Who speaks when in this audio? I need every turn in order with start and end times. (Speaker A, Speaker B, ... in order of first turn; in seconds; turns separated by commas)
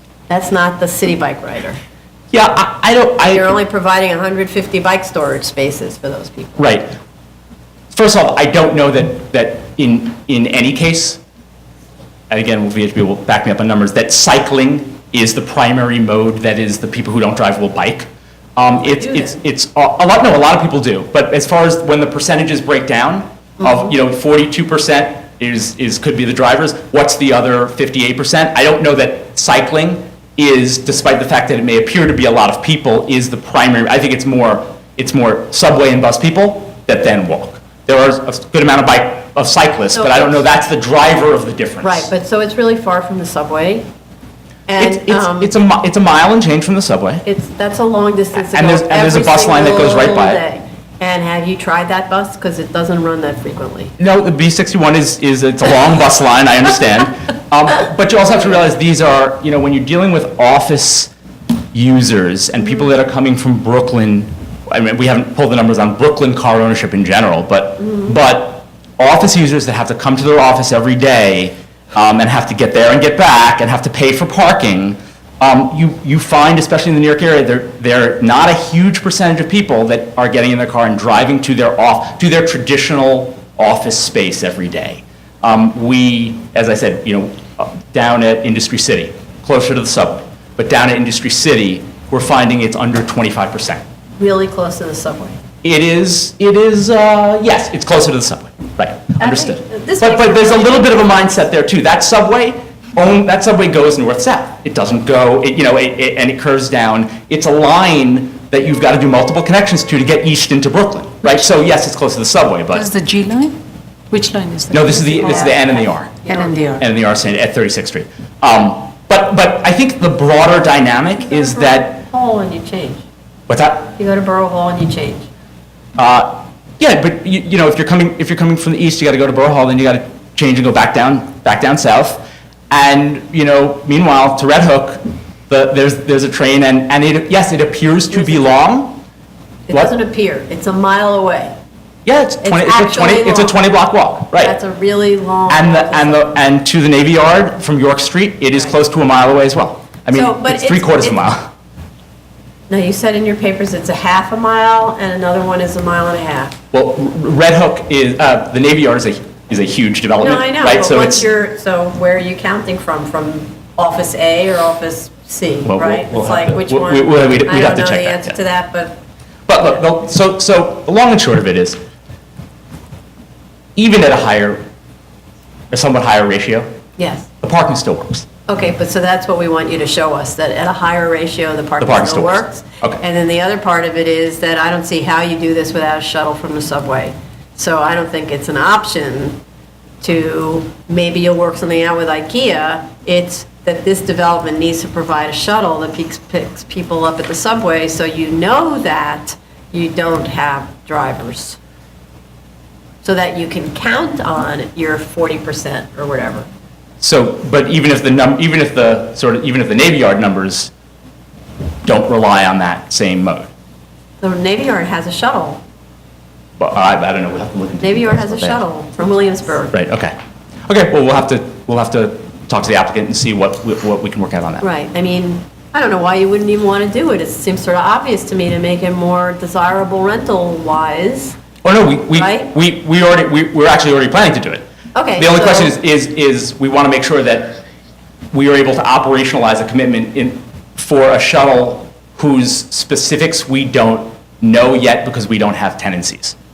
Speaker A: 0.3-1.8, Speaker B: 2.3-3.5, Speaker A: 3.2-6.6, Speaker B: 6.6-6.9, Speaker B: 7.9-11.2, Speaker B: 12.3-42.1, Speaker A: 18.9-19.3, Speaker A: 23.6-23.9, Speaker A: 39.9-40.3, Speaker A: 41.8-43.9, Speaker A: 44.7-45.5, Speaker B: 44.8-47.2, Speaker A: 47.2-53.9, Speaker B: 48.3-50.4, Speaker B: 54.0-61.1, Speaker B: 61.7-93.8, Speaker A: 94.2-95.4, Speaker B: 95.6-112.9, Speaker A: 99.2-101.4, Speaker C: 112.7-113.6, Speaker C: 114.1-115.5, Speaker B: 114.7-116.2, Speaker A: 115.1-116.6, Speaker C: 116.2-116.8, Speaker B: 116.8-122.0, Speaker A: 121.2-123.0, Speaker B: 123.5-123.9, Speaker A: 123.9-125.3, Speaker B: 126.0-139.0, Speaker A: 139.7-141.5, Speaker B: 142.0-144.6, Speaker A: 142.4-143.6, Speaker A: 144.4-146.3, Speaker B: 145.5-151.5, Speaker A: 150.1-151.2, Speaker A: 152.7-156.6, Speaker B: 156.7-161.2, Speaker A: 160.2-169.0, Speaker B: 165.7-168.4, Speaker B: 169.5-171.8, Speaker B: 173.8-174.6, Speaker B: 175.7-176.7, Speaker A: 177.0-177.3, Speaker B: 177.4-178.2, Speaker A: 178.5-189.4, Speaker B: 181.8-183.0, Speaker A: 190.0-201.6, Speaker A: 203.0-206.5, Speaker B: 207.0-210.7, Speaker B: 211.8-213.5, Speaker A: 214.2-215.6, Speaker B: 216.6-218.6, Speaker A: 217.8-219.8, Speaker B: 219.7-220.1, Speaker B: 220.7-224.6, Speaker A: 224.6-231.4, Speaker B: 231.6-234.6, Speaker A: 232.1-232.5, Speaker A: 234.9-235.7, Speaker B: 235.2-237.5, Speaker B: 238.3-246.3